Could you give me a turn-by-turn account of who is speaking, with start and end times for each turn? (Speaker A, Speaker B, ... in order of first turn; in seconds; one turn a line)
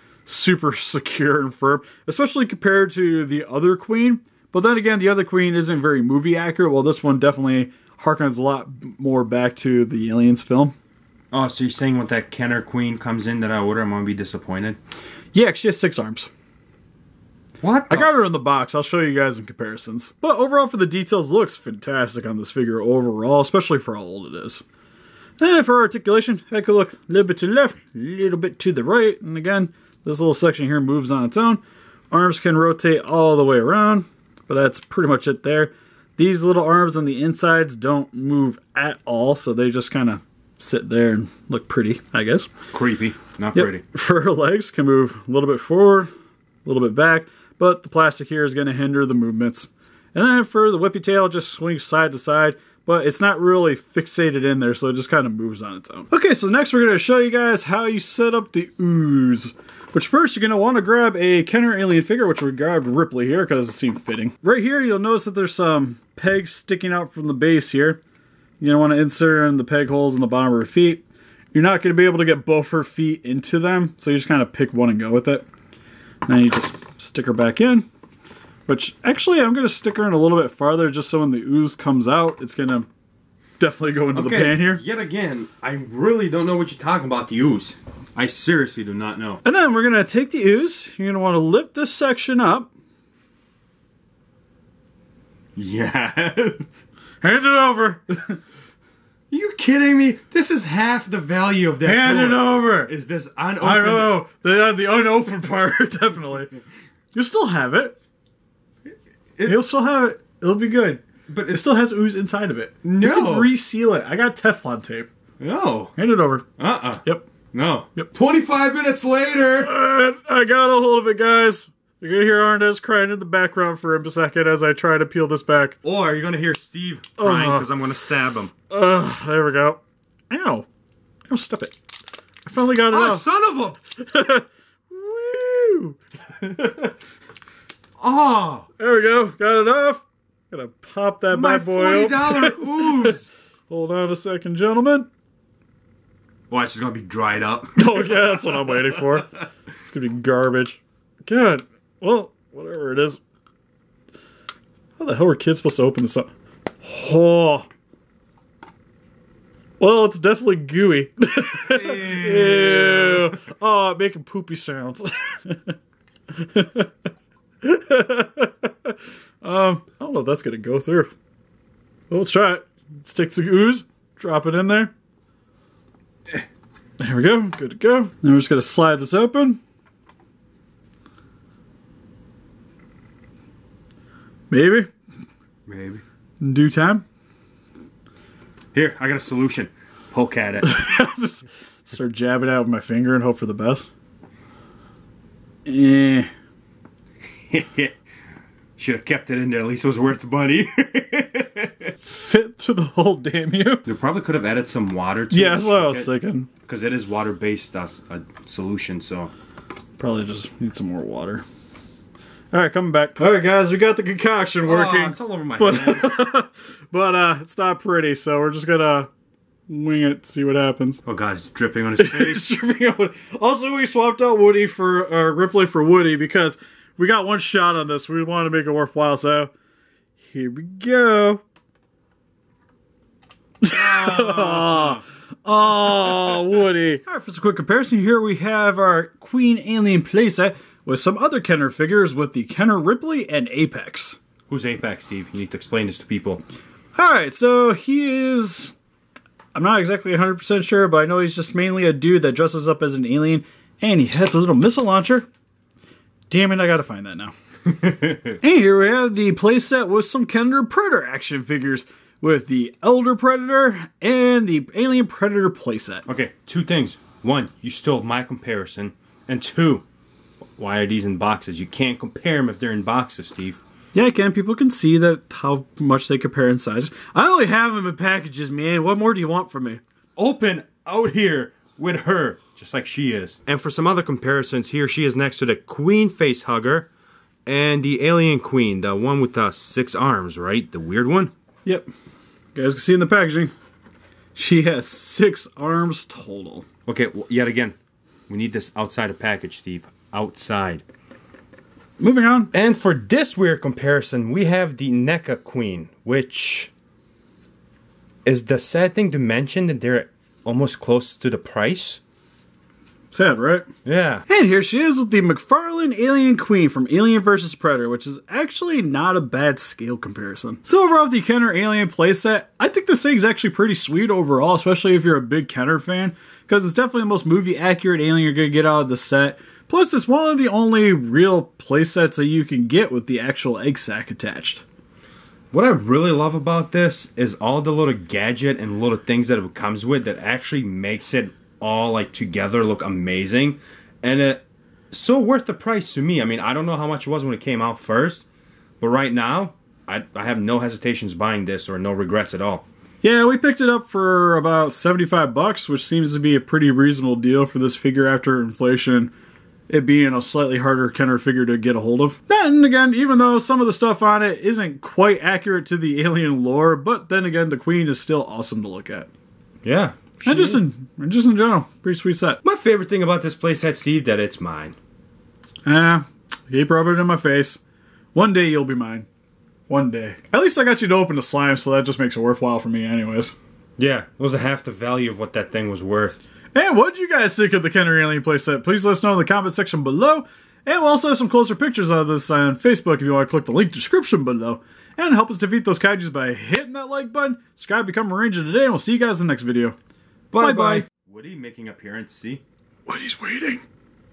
Speaker A: 0.3-10.8
Speaker B: 11.3-14.8
Speaker A: 15.3-16.3
Speaker B: 17.6-18.1
Speaker A: 17.9-24.6
Speaker A: 25.4-42.5
Speaker B: 42.7-43.8
Speaker A: 43.5-46.1
Speaker A: 46.6-68.0
Speaker A: 68.6-75.5
Speaker A: 76.3-77.9
Speaker A: 78.7-82.9
Speaker A: 83.6-84.8
Speaker B: 84.2-89.4
Speaker A: 89.4-92.7
Speaker B: 95.5-96.8
Speaker A: 97.2-98.4
Speaker B: 99.3-104.2
Speaker A: 101.8-102.9
Speaker A: 103.6-106.5
Speaker A: 107.1-108.0
Speaker B: 108.9-109.6
Speaker A: 109.5-115.1
Speaker B: 111.3-111.6
Speaker B: 112.8-113.5
Speaker B: 115.4-115.9
Speaker A: 116.0-116.5
Speaker B: 116.6-119.7
Speaker A: 119.6-125.8
Speaker B: 125.8-128.5
Speaker A: 127.2-127.7
Speaker A: 128.7-130.7
Speaker A: 131.3-131.8
Speaker A: 132.4-133.2
Speaker B: 132.9-133.8
Speaker A: 134.0-136.9
Speaker B: 138.0-138.7
Speaker A: 138.8-143.1
Speaker B: 141.3-143.3
Speaker A: 143.7-145.1
Speaker B: 146.5-149.4
Speaker A: 147.8-153.2
Speaker A: 155.0-156.3
Speaker A: 156.8-157.7
Speaker A: 159.8-165.8
Speaker B: 161.5-163.4
Speaker A: 166.3-166.9
Speaker A: 167.6-171.1
Speaker A: 172.1-174.9
Speaker A: 177.0-179.6
Speaker A: 184.5-184.9
Speaker B: 185.7-186.0
Speaker A: 186.4-187.0
Speaker B: 188.7-190.8
Speaker A: 190.6-193.9
Speaker A: 195.7-196.3
Speaker B: 197.5-197.9
Speaker B: 198.8-201.9
Speaker A: 202.0-203.9
Speaker B: 203.9-206.1
Speaker A: 205.3-206.5
Speaker B: 206.7-209.3
Speaker A: 210.0-211.4
Speaker A: 212.5-219.1
Speaker B: 214.6-216.2
Speaker A: 219.7-221.0
Speaker B: 221.1-222.4
Speaker A: 222.0-229.5
Speaker A: 230.3-231.4
Speaker A: 233.6-244.2
Speaker B: 233.7-235.0
Speaker B: 244.5-246.4
Speaker A: 246.9-248.7
Speaker A: 249.6-255.3
Speaker A: 256.3-257.3
Speaker B: 257.8-258.2
Speaker A: 258.4-266.1
Speaker B: 266.1-269.9
Speaker B: 270.6-273.6
Speaker A: 273.9-279.8
Speaker B: 280.2-286.9
Speaker B: 287.5-291.3
Speaker A: 292.6-293.5
Speaker A: 294.4-296.7
Speaker B: 296.9-297.8
Speaker B: 298.3-300.8
Speaker A: 302.0-302.5
Speaker B: 302.5-306.7
Speaker B: 308.2-312.0
Speaker A: 313.1-313.7
Speaker B: 313.9-314.2
Speaker A: 314.3-334.6
Speaker B: 335.5-348.3
Speaker B: 348.8-352.6
Speaker A: 353.0-359.1
Speaker A: 359.7-369.1
Speaker B: 369.6-370.6
Speaker A: 370.2-372.4
Speaker B: 372.4-374.8
Speaker A: 375.7-377.6
Speaker A: 378.1-379.1
Speaker A: 379.7-383.4
Speaker B: 383.8-386.2
Speaker A: 386.5-399.8
Speaker B: 400.3-402.4
Speaker A: 400.4-400.9
Speaker A: 402.9-403.6